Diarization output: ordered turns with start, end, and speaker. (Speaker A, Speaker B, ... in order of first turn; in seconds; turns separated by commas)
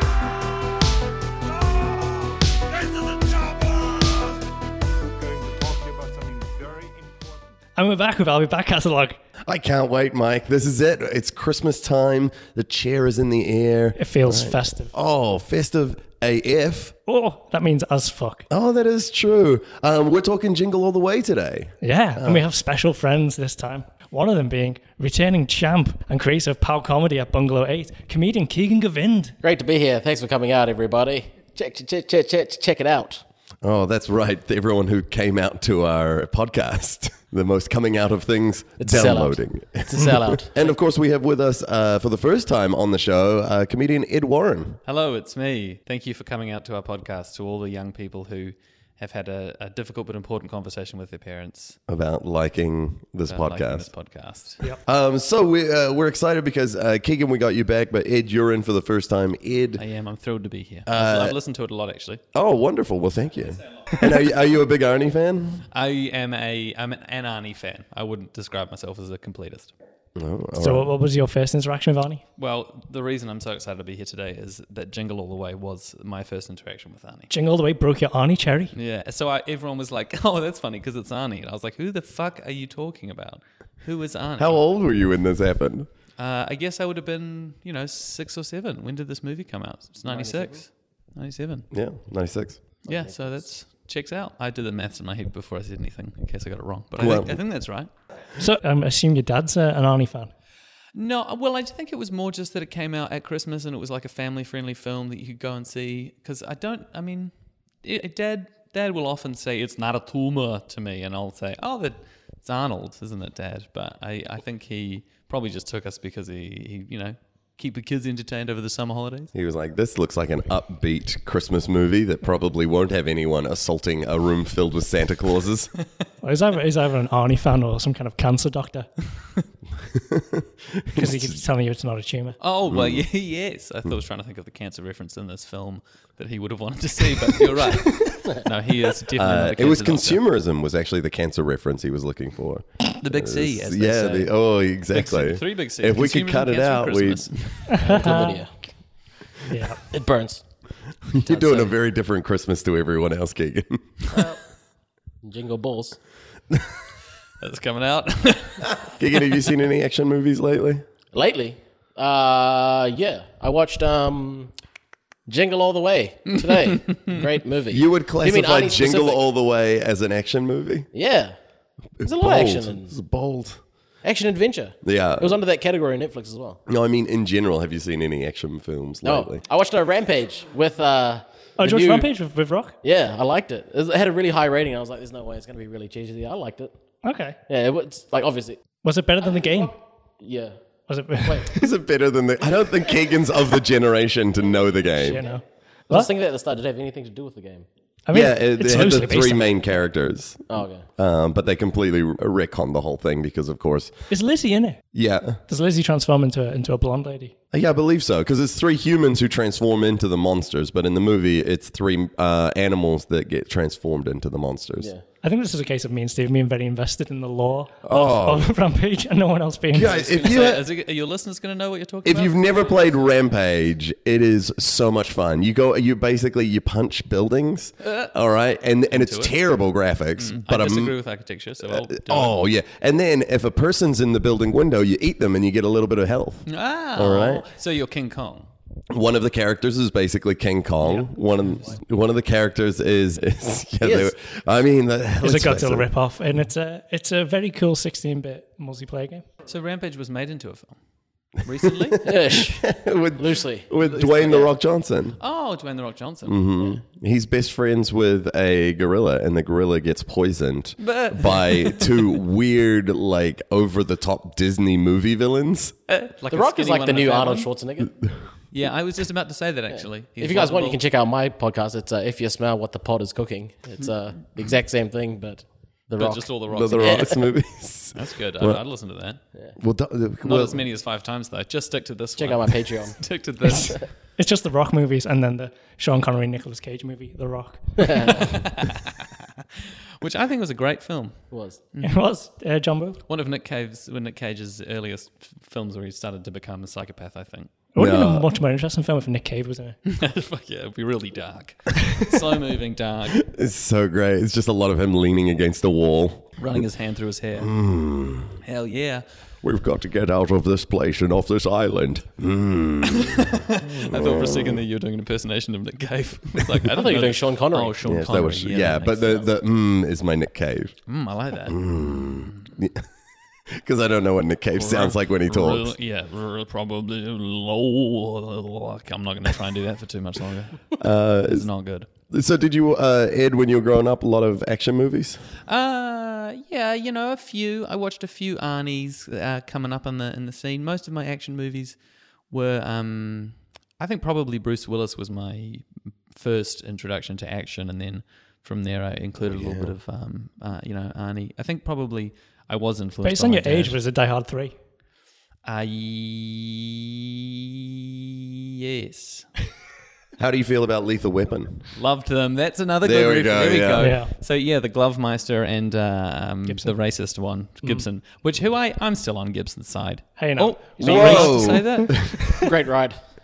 Speaker A: 1.8-2.1, Speaker A: 3.4-4.3, Speaker B: 7.8-9.2, Speaker A: 9.4-16.9, Speaker B: 14.0-14.9, Speaker B: 17.1-18.5, Speaker A: 18.5-22.4, Speaker B: 21.8-29.4, Speaker C: 29.4-33.2, Speaker A: 33.6-44.8, Speaker C: 38.8-40.6, Speaker D: 44.9-51.8, Speaker A: 51.9-53.9, Speaker D: 53.3-54.6, Speaker A: 54.9-59.8, Speaker D: 59.8-62.2, Speaker A: 60.9-61.4, Speaker A: 62.3-65.7, Speaker D: 65.7-69.7, Speaker A: 70.2-71.0, Speaker B: 70.6-72.2, Speaker D: 72.4-77.3, Speaker B: 77.3-78.7, Speaker D: 78.7-84.6, Speaker A: 84.4-85.9, Speaker D: 86.2-91.7, Speaker C: 90.1-90.6, Speaker A: 91.7-92.6, Speaker C: 92.9-93.4, Speaker D: 92.9-97.9, Speaker A: 97.0-97.4, Speaker B: 98.4-100.3, Speaker D: 101.0-107.3, Speaker D: 107.8-119.3, Speaker A: 119.3-125.7, Speaker B: 126.2-128.9, Speaker A: 129.9-131.3, Speaker B: 130.9-132.4, Speaker D: 132.4-140.2, Speaker A: 132.7-133.1, Speaker A: 139.1-147.8, Speaker D: 143.0-144.3, Speaker D: 144.9-148.2, Speaker B: 147.7-148.4, Speaker C: 147.8-148.5, Speaker B: 149.5-149.8, Speaker C: 149.9-150.4, Speaker A: 151.1-154.0, Speaker C: 151.2-151.7, Speaker C: 154.1-154.4, Speaker C: 155.2-156.0, Speaker D: 157.4-158.8, Speaker A: 158.6-160.8, Speaker C: 161.1-164.5, Speaker C: 165.3-169.2, Speaker D: 166.5-166.8, Speaker A: 167.7-170.9, Speaker C: 170.9-171.4, Speaker A: 172.0-173.6, Speaker C: 172.0-172.9, Speaker C: 174.0-176.6, Speaker A: 174.8-175.4, Speaker A: 176.7-179.4, Speaker C: 179.0-182.1, Speaker B: 181.6-182.8, Speaker C: 182.8-186.7, Speaker B: 187.0-187.4, Speaker C: 187.5-188.6, Speaker B: 188.8-189.8, Speaker C: 190.2-190.6, Speaker B: 190.9-191.7, Speaker C: 191.2-191.5, Speaker A: 191.5-195.2, Speaker B: 195.0-196.1, Speaker C: 195.9-197.7, Speaker B: 198.1-199.5, Speaker A: 198.1-203.9, Speaker C: 200.5-200.9, Speaker B: 204.1-204.8, Speaker A: 204.9-205.4, Speaker B: 205.5-207.3, Speaker A: 207.5-214.9, Speaker C: 214.8-215.0, Speaker B: 215.2-220.2, Speaker A: 217.8-218.5, Speaker A: 219.7-220.7, Speaker D: 219.9-222.8, Speaker A: 222.1-231.0, Speaker D: 228.9-229.3, Speaker D: 230.2-232.4, Speaker A: 231.7-237.5, Speaker D: 236.5-238.5, Speaker A: 238.9-245.9, Speaker C: 243.8-244.1, Speaker B: 245.2-249.2, Speaker D: 249.5-250.8, Speaker D: 251.4-252.1, Speaker A: 251.6-255.2, Speaker C: 252.0-254.5, Speaker D: 254.0-254.3, Speaker D: 255.2-256.4, Speaker A: 256.3-265.7, Speaker D: 260.8-262.2, Speaker D: 265.9-267.5, Speaker C: 266.3-267.9, Speaker D: 268.5-270.8, Speaker C: 269.7-277.2, Speaker D: 276.0-277.2, Speaker A: 276.5-278.6, Speaker D: 277.9-279.2, Speaker A: 279.6-280.6, Speaker D: 280.2-283.9, Speaker C: 282.2-283.0, Speaker B: 283.4-288.2, Speaker C: 287.8-288.2, Speaker D: 288.1-289.4, Speaker D: 290.0-292.0, Speaker C: 291.3-291.6, Speaker B: 291.8-293.0, Speaker D: 293.1-297.5, Speaker B: 297.7-299.8, Speaker A: 297.8-298.3, Speaker D: 299.9-303.2, Speaker A: 303.2-306.6, Speaker D: 306.4-307.6, Speaker A: 307.4-308.4, Speaker D: 308.4-309.0, Speaker A: 309.4-314.6, Speaker D: 312.9-319.3, Speaker C: 316.6-317.8, Speaker A: 317.8-320.8, Speaker D: 320.9-322.4, Speaker A: 321.5-322.9, Speaker A: 323.5-325.7, Speaker D: 324.6-331.9, Speaker A: 330.8-331.5, Speaker A: 332.1-335.2, Speaker D: 335.5-341.8, Speaker D: 342.3-353.8, Speaker A: 349.2-349.7, Speaker B: 353.0-354.6, Speaker D: 355.4-359.3, Speaker A: 360.2-361.7, Speaker D: 361.8-372.5, Speaker A: 362.8-363.9, Speaker B: 363.8-364.1, Speaker B: 366.5-366.7, Speaker B: 370.2-371.6, Speaker A: 370.8-372.5, Speaker C: 372.3-373.0